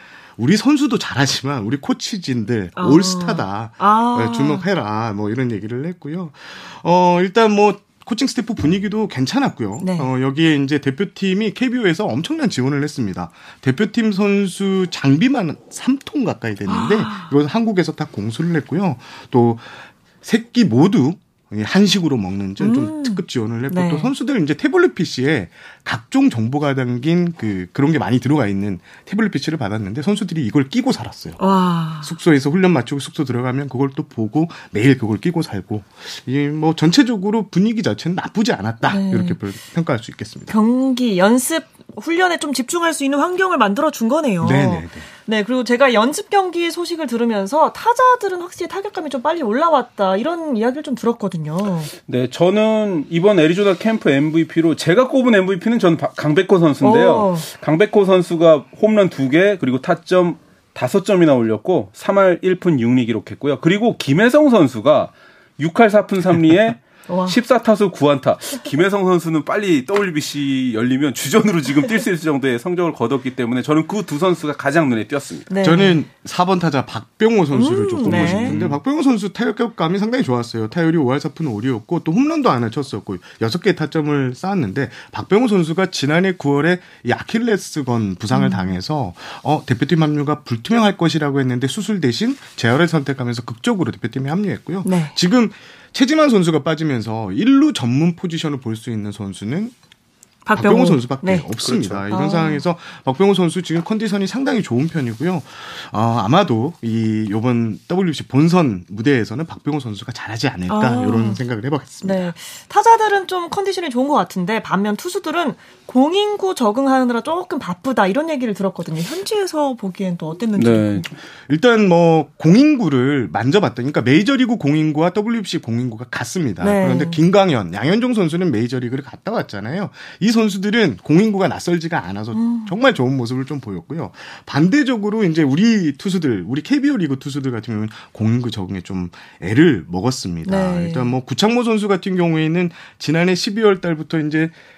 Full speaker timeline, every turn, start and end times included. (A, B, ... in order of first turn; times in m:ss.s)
0:00.4-0:31.4 A
0:02.8-0:04.6 B
0:09.8-0:10.1 B
0:16.7-0:17.3 B
0:22.6-0:24.1 B
0:31.4-0:32.1 B
0:32.0-0:40.5 A
0:38.9-0:39.4 B
0:40.5-0:51.9 B
0:44.4-0:45.1 A
0:52.1-1:15.5 C
0:56.8-0:57.5 B
1:07.1-1:07.4 B
1:15.5-1:16.0 B
1:15.6-1:39.7 A
1:17.5-1:18.6 B
1:18.0-1:18.8 C
1:28.3-1:28.7 B
1:34.8-1:35.1 B
1:40.5-1:41.5 B
1:40.5-1:52.3 A
1:41.6-1:42.1 C
1:42.1-1:42.6 B
1:50.7-1:51.4 B
1:52.0-2:01.1 B
2:00.6-2:01.1 C
2:01.5-2:24.5 A
2:06.6-2:07.2 B
2:12.3-2:12.8 B
2:20.4-2:21.1 B